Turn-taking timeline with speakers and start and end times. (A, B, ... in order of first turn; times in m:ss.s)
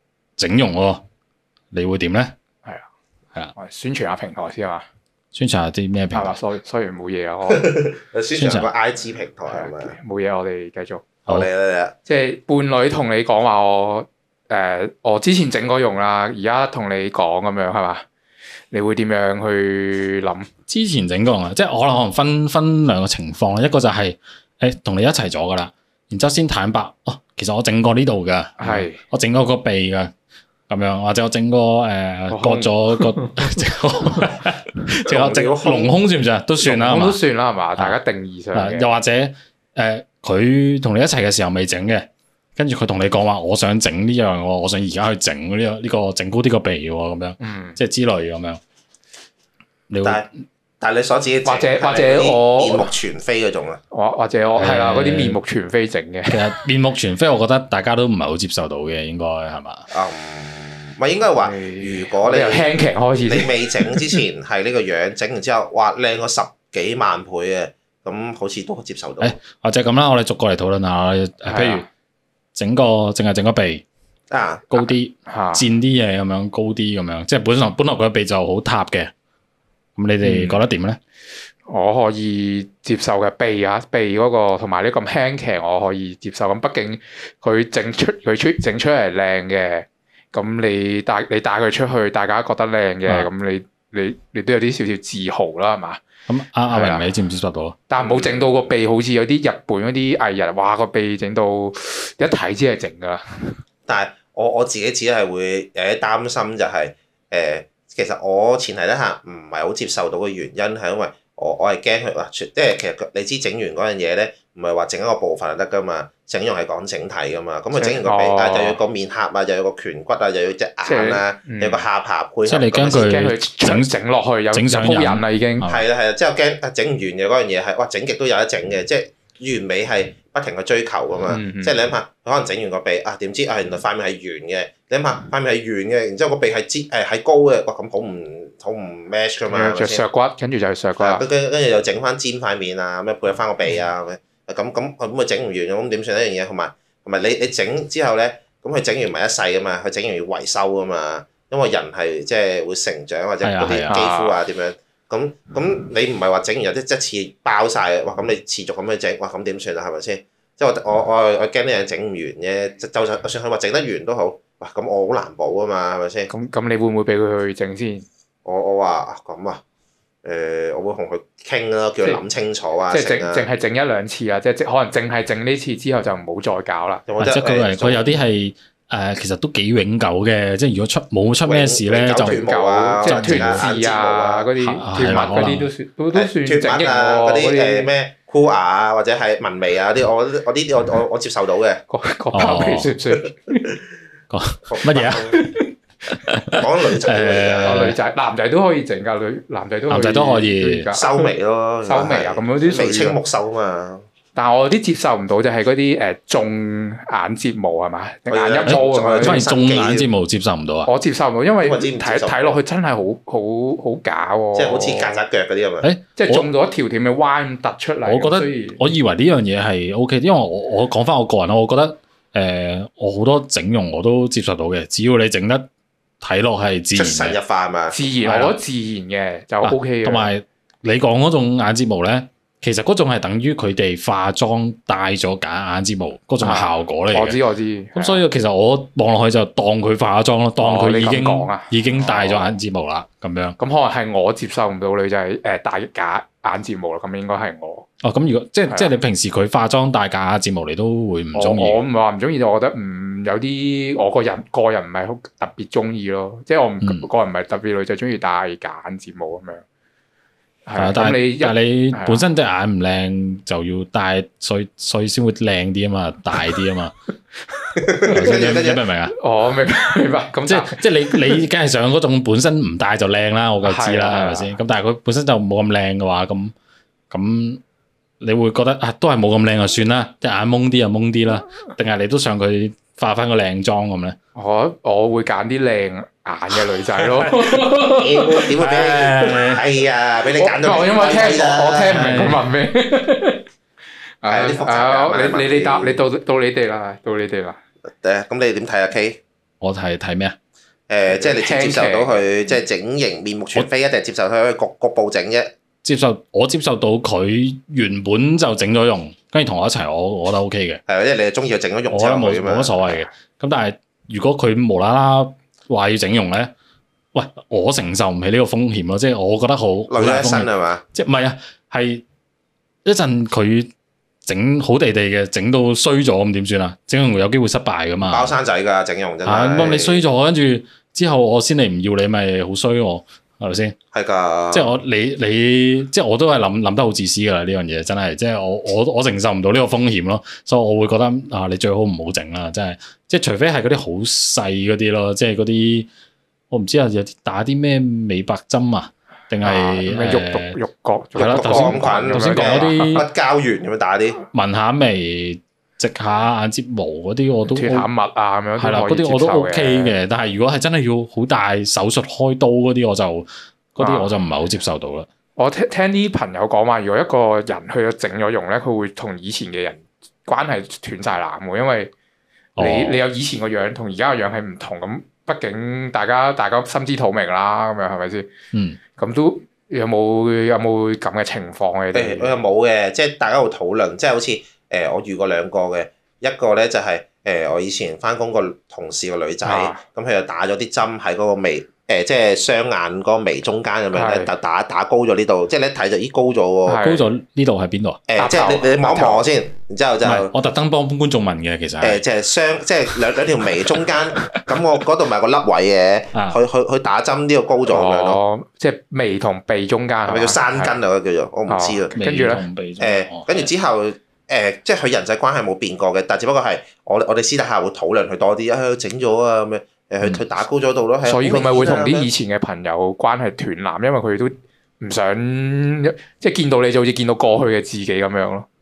0:00.4-0:01.0 A
0:01.7-0:02.4 A
0:03.6-0:04.9 B
0:05.3-0:06.4 A
0:06.1-0:07.7 B
0:07.5-0:10.0 C
0:08.3-0:08.7 A
0:09.5-0:11.1 B
0:11.3-0:12.0 C
0:12.1-0:18.0 B
0:18.7-0:20.5 B
0:20.7-0:30.1 A
0:28.6-0:29.0 B
0:30.7-0:37.2 A
0:32.3-0:33.6 B
0:35.1-0:36.0 C
0:36.6-0:38.9 B
0:38.5-0:48.6 A
0:47.4-0:47.8 B
0:49.9-0:50.2 A
0:50.0-0:50.3 C
0:50.8-0:53.8 C
0:51.4-0:52.9 B
0:53.9-0:56.4 B
0:54.6-0:55.4 A
0:56.3-0:59.8 A
0:59.9-1:02.7 C
1:01.4-1:04.2 B
1:03.2-1:09.4 C
1:09.2-1:11.9 A
1:11.5-1:11.9 B
1:12.6-1:13.8 A
1:14.3-1:14.9 C
1:14.7-1:19.1 A
1:15.3-1:15.6 B
1:20.0-1:21.0 A
1:20.2-1:20.6 B
1:21.7-1:36.0 B
1:36.3-1:37.8 A
1:36.7-1:37.1 B
1:37.9-1:43.6 B
1:38.0-1:38.7 C
1:43.9-2:03.2 C
1:57.7-1:58.8 B
2:00.8-2:01.8 B
2:02.5-2:03.9 A
2:02.9-2:05.6 B
2:04.5-2:05.9 A
2:05.7-2:20.0 C
2:11.2-2:11.8 B
2:19.5-2:21.2 B
2:21.0-2:46.3 C
2:33.4-2:34.0 A
2:33.9-2:34.4 B
2:46.3-2:48.1 B
2:48.4-2:49.6 C
2:50.2-2:53.5 C
2:52.9-2:57.0 B
2:57.1-2:58.2 C
2:57.2-3:02.4 A
3:01.4-3:04.5 C
3:02.2-3:07.9 B
3:03.0-3:03.7 A
3:04.6-3:05.7 A
3:06.1-3:11.8 C
3:11.9-3:13.8 B
3:12.3-3:12.9 A
3:14.3-3:15.5 A
3:14.6-3:15.4 C
3:16.1-3:18.0 A
3:16.6-3:17.9 C
3:17.6-3:21.3 B
3:19.9-3:20.9 A
3:20.9-3:24.0 C
3:21.9-3:23.2 B
3:24.4-3:29.4 B
3:28.3-3:30.1 C
3:28.6-3:30.9 A
3:30.9-3:35.2 B
3:31.6-3:32.6 C
3:34.6-3:35.9 C
3:35.8-3:36.5 A
3:36.2-3:38.8 B
3:38.0-3:45.7 A
3:46.2-3:47.4 A
3:46.9-3:48.0 C
3:47.9-3:50.3 B
3:48.2-3:48.6 A
3:49.6-3:57.4 A
3:56.4-3:58.2 B
3:58.0-4:03.6 A
4:00.6-4:02.6 B
4:03.6-4:07.9 B
4:08.0-4:11.8 A
4:08.7-4:08.9 B
4:11.3-4:19.6 B
4:16.8-4:17.1 A
4:20.7-4:22.3 B
4:20.8-4:27.0 A
4:27.6-4:28.5 B
4:27.8-4:28.8 C
4:28.0-4:29.2 A
4:29.1-4:31.4 B
4:30.5-4:36.5 A
4:33.6-4:34.5 B
4:37.1-4:37.6 A
4:38.2-4:44.2 A
4:44.4-4:48.4 B
4:46.5-4:47.7 A
4:47.8-4:52.3 C
4:48.6-4:49.6 A
4:50.4-4:53.4 B
4:51.8-4:52.4 A
4:54.2-4:57.6 B
4:54.3-4:56.1 C
4:57.9-4:59.2 C
4:59.6-5:00.4 A
5:00.9-5:05.5 C
5:01.1-5:02.2 B
5:05.8-5:10.8 A
5:10.9-5:12.9 C
5:11.9-5:16.5 A
5:17.1-5:22.0 A
5:19.9-5:20.8 C
5:22.8-5:23.7 A
5:24.2-5:28.3 A
5:28.0-5:30.0 C
5:29.2-5:33.8 A
5:33.9-5:34.7 C
5:34.5-5:45.9 A
5:46.5-5:50.6 A
5:49.4-5:53.0 B
5:51.2-5:53.1 A
5:51.2-5:54.2 C
5:54.3-5:57.9 A
5:57.5-6:00.0 B
5:58.6-6:05.1 A
6:03.8-6:04.2 B
6:05.4-6:11.9 B
6:12.6-6:13.0 A
6:12.6-6:18.3 B
6:18.5-6:18.8 A
6:19.0-6:22.4 B
6:21.9-6:36.8 C
6:29.4-6:29.8 B
6:33.9-6:34.3 B
6:36.7-6:37.1 B
6:36.8-6:38.0 A
6:38.1-6:40.3 C
6:38.2-6:39.3 B
6:40.0-6:42.0 A
6:41.8-6:48.2 C
6:46.1-6:46.4 A
6:47.7-6:50.8 B
6:50.1-6:52.0 C
6:51.5-6:52.5 B
6:52.0-6:53.5 A
6:52.8-7:02.1 C
7:01.0-7:08.5 B